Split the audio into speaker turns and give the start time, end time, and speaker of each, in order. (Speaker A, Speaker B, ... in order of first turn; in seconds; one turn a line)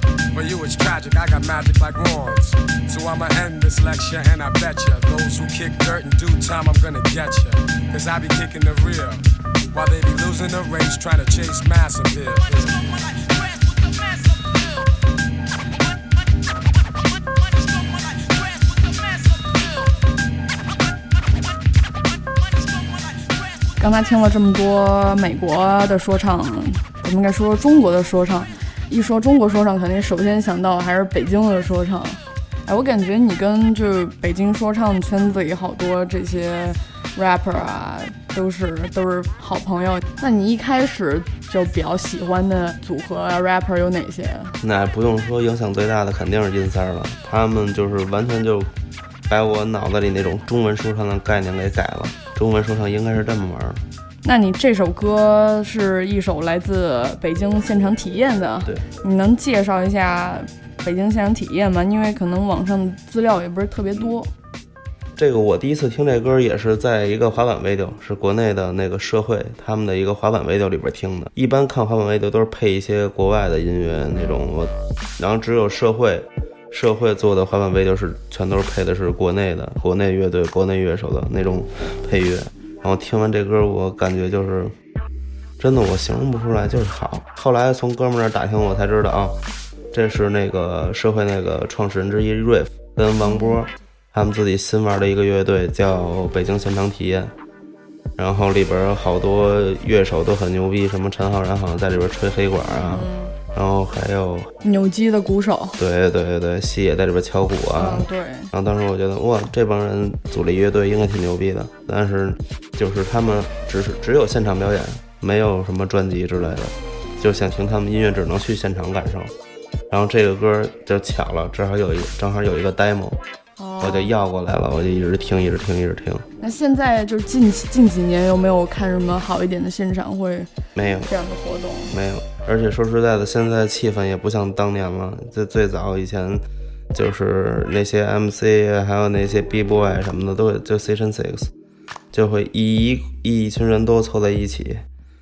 Speaker A: 0.3-13.0
Speaker B: 23.8-44.5
Speaker C: 44.6-48.7
Speaker C: 49.3-53.8
Speaker B: 54.2-64.3
Speaker C: 65.2-84.7
Speaker C: 85.6-89.4
Speaker C: 89.9-97.3
Speaker B: 93.2-93.6
Speaker C: 98.2-104.5
Speaker B: 102.9-103.3
Speaker B: 104.6-105.8
Speaker C: 105.8-119.3
Speaker B: 107.8-108.5
Speaker C: 119.9-123.2
Speaker B: 123.6-124.1
Speaker C: 123.8-126.2
Speaker B: 126.4-130.5
Speaker C: 130.7-131.1
Speaker B: 131.1-131.9
Speaker C: 131.9-141.5
Speaker C: 142.1-144.8